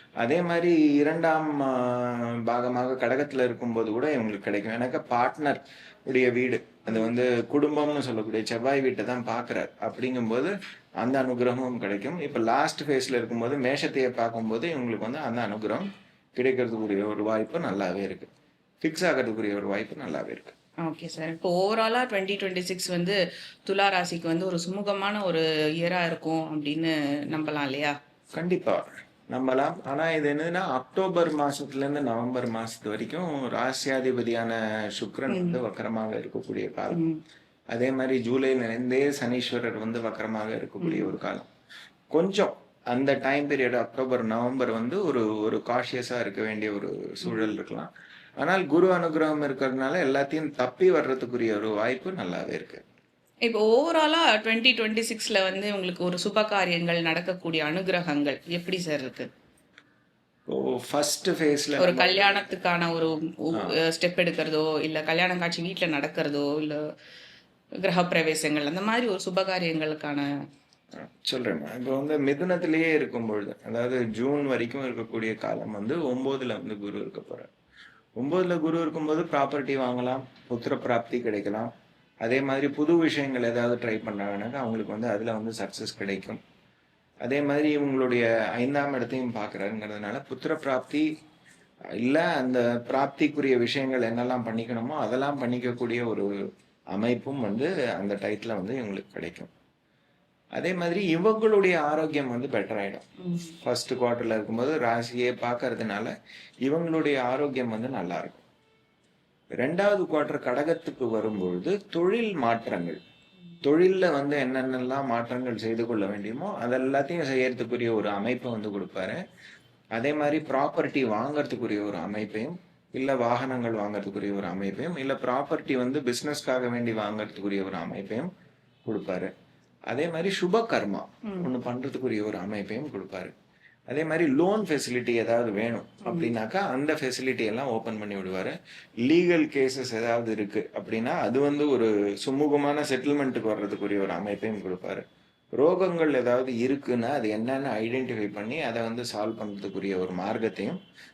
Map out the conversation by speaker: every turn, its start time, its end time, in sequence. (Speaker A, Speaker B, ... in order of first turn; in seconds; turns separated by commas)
Speaker A: 0.2-18.3, Speaker A: 18.8-20.6, Speaker B: 20.8-27.9, Speaker A: 28.4-37.0, Speaker B: 35.3-35.6, Speaker B: 36.9-37.2, Speaker A: 37.7-41.5, Speaker B: 40.8-41.1, Speaker A: 42.1-47.9, Speaker A: 48.4-52.8, Speaker B: 53.5-59.3, Speaker A: 60.5-62.5, Speaker B: 61.8-66.8, Speaker B: 67.8-70.3, Speaker A: 71.2-77.5, Speaker A: 78.2-81.7, Speaker A: 82.2-86.4, Speaker A: 87.2-91.1, Speaker A: 92.0-96.3, Speaker A: 96.9-99.5, Speaker A: 100.6-103.1, Speaker B: 103.2-103.5, Speaker A: 103.6-106.1, Speaker A: 106.7-108.4, Speaker A: 109.6-113.0, Speaker A: 113.6-119.2, Speaker A: 120.0-128.3, Speaker A: 128.9-129.3, Speaker A: 129.9-133.3, Speaker A: 133.9-145.0, Speaker B: 136.1-136.3, Speaker A: 145.6-150.8